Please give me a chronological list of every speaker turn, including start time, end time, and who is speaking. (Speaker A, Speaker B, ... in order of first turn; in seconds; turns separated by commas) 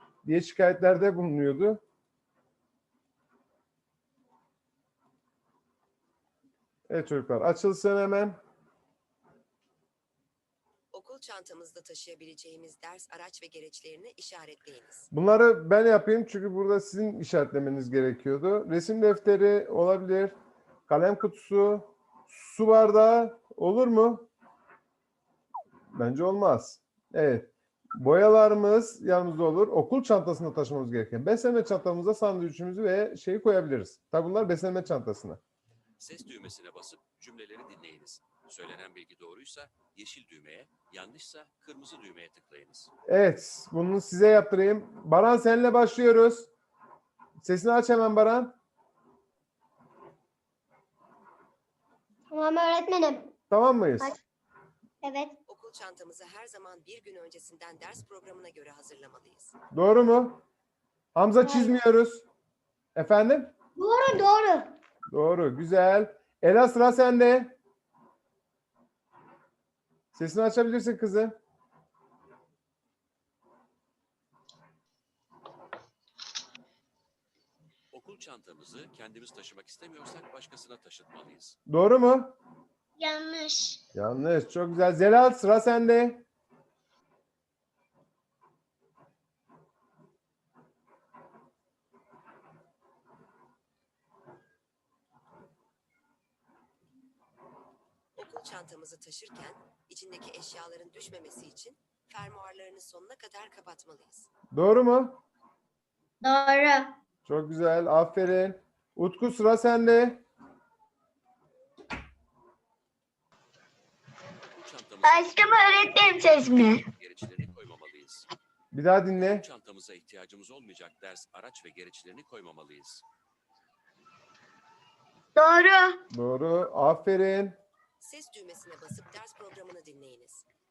Speaker A: 0.2-1.8, Speaker A: 6.9-8.4, Speaker B: 10.9-15.1, Speaker A: 15.1-20.4, Speaker A: 20.9-24.3, Speaker A: 25.9-35.4, Speaker C: 36.0-42.9, Speaker A: 43.1-46.5, Speaker A: 47.4-48.5, Speaker D: 52.3-53.3, Speaker A: 53.5-54.1, Speaker D: 55.0-55.3, Speaker B: 55.5-59.5, Speaker A: 59.7-60.4, Speaker A: 61.1-62.2, Speaker D: 61.4-61.8, Speaker A: 62.9-63.5, Speaker D: 63.8-64.7, Speaker A: 65.1-67.6, Speaker A: 70.1-71.4, Speaker C: 77.9-81.6, Speaker A: 81.7-82.3, Speaker D: 83.0-83.8, Speaker A: 83.9-86.2, Speaker B: 98.2-104.3, Speaker A: 104.5-105.2, Speaker D: 106.2-106.9, Speaker A: 107.2-110.2, Speaker C: 114.6-118.3, Speaker D: 115.0-116.8, Speaker A: 118.7-119.4, Speaker C: 119.1-123.0, Speaker D: 125.3-126.0, Speaker A: 126.1-127.6, Speaker B: 128.0-130.4